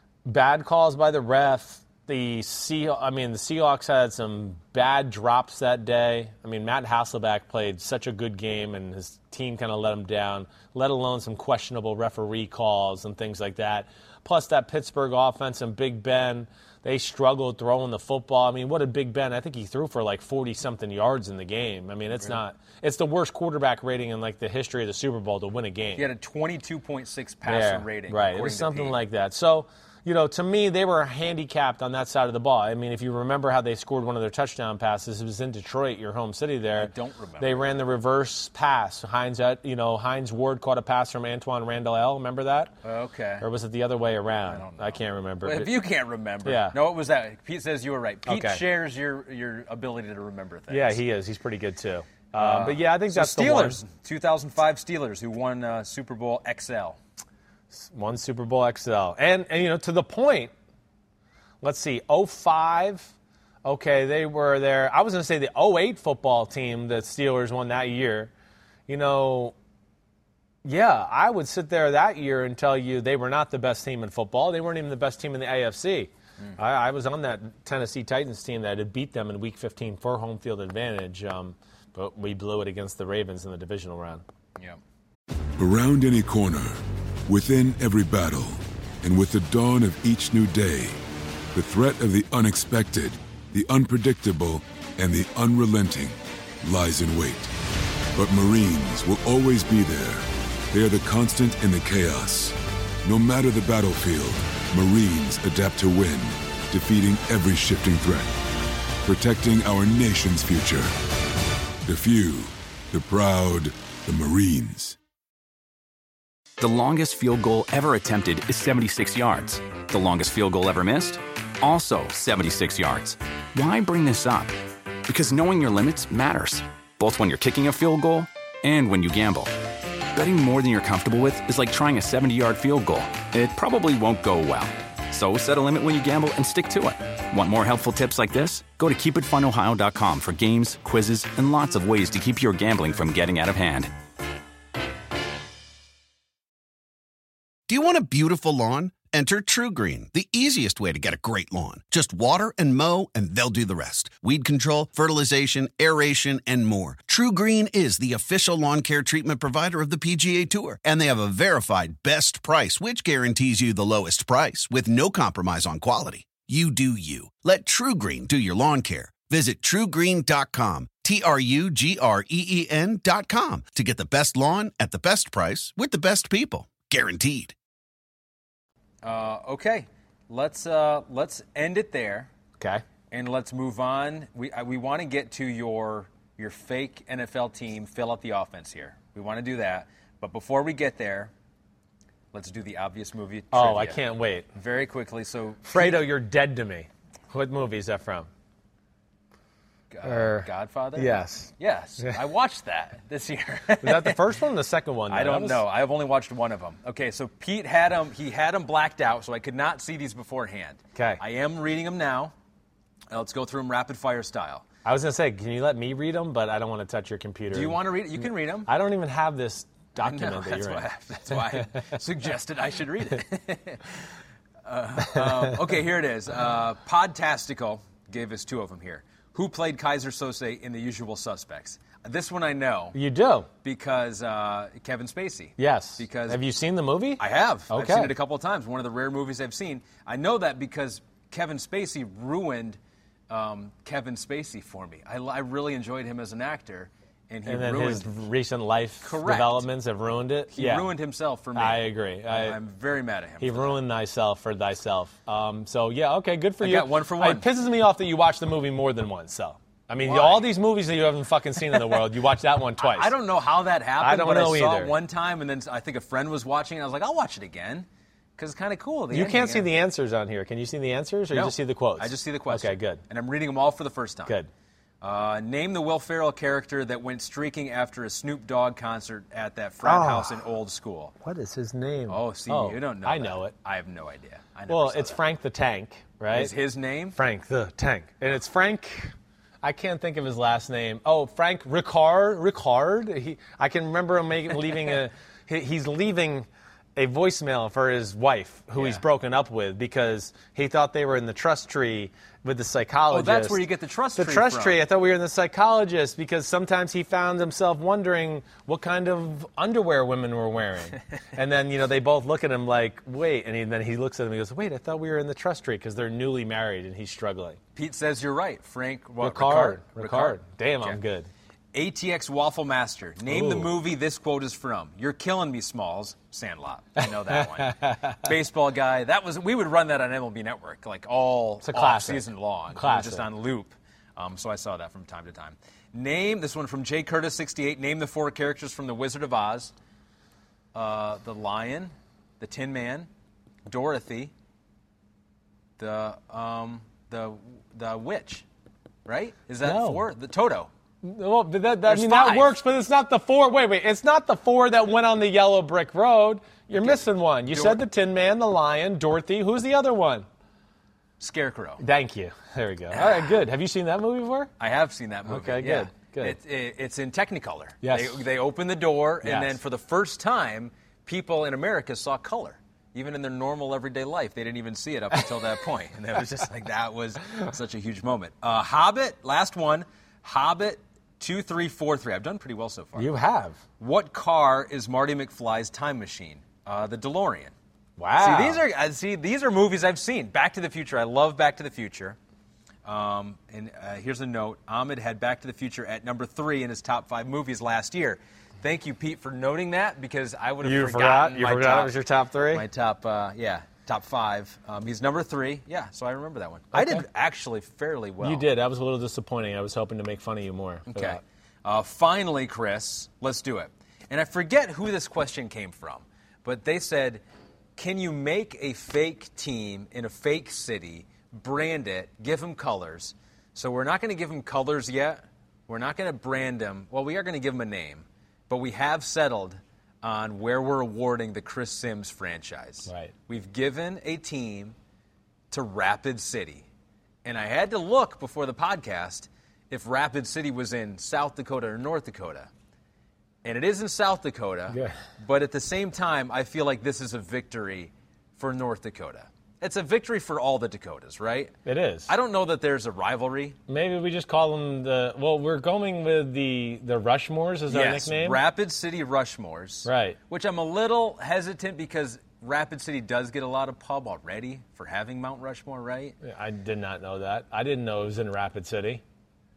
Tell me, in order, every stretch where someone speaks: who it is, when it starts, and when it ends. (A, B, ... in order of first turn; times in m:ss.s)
0:00.2-0:26.1 A
0:26.0-0:29.0 B
0:27.4-0:42.8 A
0:36.7-0:37.7 B
0:42.8-0:43.4 B
0:43.4-0:45.7 A
0:44.5-0:51.0 B
0:46.4-0:46.8 A
0:48.3-0:48.6 A
0:50.7-0:53.8 A
0:52.4-0:57.0 B
0:57.7-1:00.5 A
1:01.6-1:03.1 A
1:03.6-1:08.3 A
1:08.9-1:09.5 A
1:10.6-1:24.2 A
1:25.6-1:31.0 C
1:31.5-1:37.5 C
1:38.1-1:48.3 C
1:49.0-1:50.9 C
1:51.8-1:55.0 C
1:56.6-2:04.5 D
2:05.1-2:09.5 D
2:10.1-2:23.9 D
2:27.7-2:57.6 E
2:59.0-3:02.3 B
3:02.6-3:02.8 A
3:03.1-3:11.3 B
3:12.3-3:14.0 B
3:13.5-3:14.5 A
3:14.5-3:16.1 B
3:15.7-3:18.3 A
3:19.9-3:24.2 B
3:20.0-3:22.2 A
3:23.8-3:25.6 A
3:25.1-3:32.3 B
3:30.9-3:31.2 A
3:33.1-3:34.6 B
3:34.8-3:41.8 A
3:37.5-3:38.7 B
3:40.0-3:44.1 B
3:44.6-3:53.0 B
3:45.1-3:45.6 A
3:52.9-3:53.5 A
3:53.6-3:56.4 B
3:55.6-3:58.1 A
3:57.2-4:02.8 B
4:03.3-4:08.1 B
4:07.4-4:10.9 A
4:09.0-4:09.6 B
4:10.5-4:13.8 B
4:11.5-4:12.6 A
4:13.4-4:23.1 A
4:16.6-4:17.5 B
4:20.0-4:20.5 B
4:22.8-4:29.7 B
4:24.0-4:24.9 A
4:29.1-4:33.0 A
4:31.3-4:34.3 B
4:35.0-4:41.1 B
4:39.8-4:40.4 A
4:41.2-4:43.5 A
4:42.1-4:45.2 B
4:44.7-4:46.5 A
4:46.3-4:47.2 B
4:47.1-5:17.6 A
4:58.8-4:59.0 B
5:03.1-5:04.8 B
5:17.7-5:21.0 B
5:19.2-5:21.3 A
5:21.7-5:39.7 B
5:23.3-5:23.7 A
5:27.0-5:28.3 A
5:31.6-5:33.3 A
5:40.7-5:43.1 B
5:43.6-5:44.3 B
5:45.8-5:48.4 B
5:49.0-5:50.7 B
5:49.6-5:50.0 A
5:51.0-6:00.3 A
5:51.8-5:52.6 B
5:56.7-5:57.8 B
6:01.2-6:01.8 B
6:01.8-6:04.5 A
6:02.9-6:03.2 B
6:04.6-6:23.1 B
6:05.3-6:06.4 A
6:07.8-6:08.2 A
6:09.2-6:09.6 A
6:23.0-6:23.6 A
6:23.8-6:27.5 B
6:28.0-6:28.6 A
6:28.2-6:32.2 B
6:32.8-6:42.0 B
6:40.6-6:42.6 A
6:42.5-6:48.5 B
6:46.7-6:47.0 A
6:48.2-6:51.2 A
6:50.9-6:57.2 B
6:57.8-7:14.7 B
7:12.9-7:13.1 A
7:15.5-7:16.6 B
7:17.2-7:22.5 B
7:23.4-7:31.5 B
7:24.7-7:25.0 A
7:31.6-7:32.1 A
7:32.1-7:33.6 B
7:33.7-7:38.4 A
7:37.7-7:46.2 B
7:39.8-7:40.2 A
7:46.2-7:49.0 A